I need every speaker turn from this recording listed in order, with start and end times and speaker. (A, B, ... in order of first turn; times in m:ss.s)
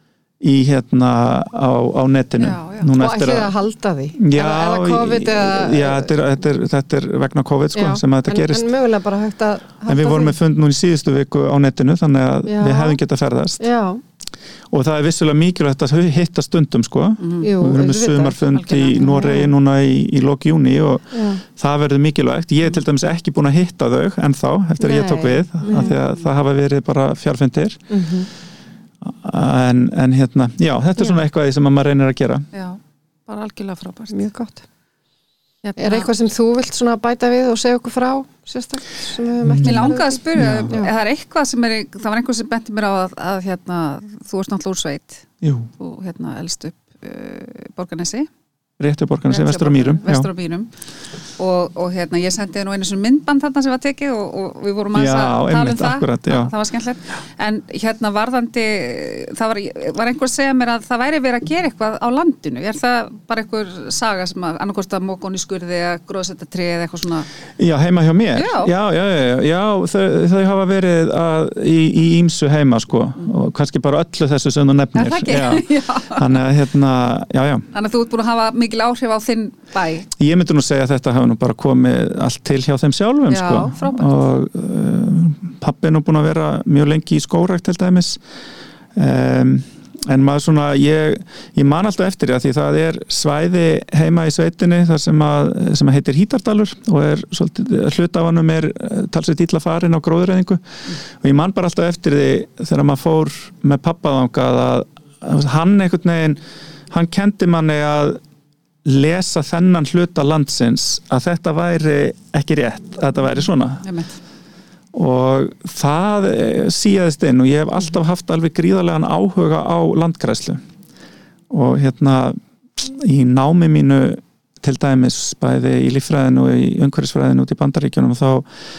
0:00.4-0:03.5 A
0:02.4-0:02.9 B
0:03.0-0:06.2 C
0:04.2-0:08.7 A
0:07.7-0:10.3 C
0:09.9-0:13.7 A
0:12.4-0:13.0 C
0:13.6-0:14.0 C
0:14.7-0:27.8 A
0:17.2-0:17.5 B
0:17.4-0:18.4 C
0:18.5-0:19.2 B
0:18.9-0:19.5 C
0:21.1-0:21.4 C
0:24.8-0:26.0 C
0:25.7-0:26.3 B
0:27.9-0:28.3 C
0:29.0-0:32.5 A
0:32.5-0:34.2 B
0:34.1-0:34.6 C
0:35.6-0:36.1 B
0:35.8-0:40.2 C
0:39.4-0:40.8 A
0:39.6-0:45.2 B
0:45.4-0:45.7 A
0:45.8-0:48.3 B
0:48.8-0:50.3 A
0:49.3-0:50.7 B
0:51.4-1:07.3 B
0:54.9-0:56.5 A
1:07.6-1:17.7 A
1:08.3-1:08.7 B
1:14.9-1:16.4 B
1:17.7-1:20.1 B
1:20.2-1:28.2 A
1:23.3-1:24.3 B
1:28.9-1:46.4 A
1:46.9-1:48.2 A
1:48.8-1:53.8 A
1:53.8-1:54.2 B
1:54.9-2:00.6 A
2:01.5-2:08.4 A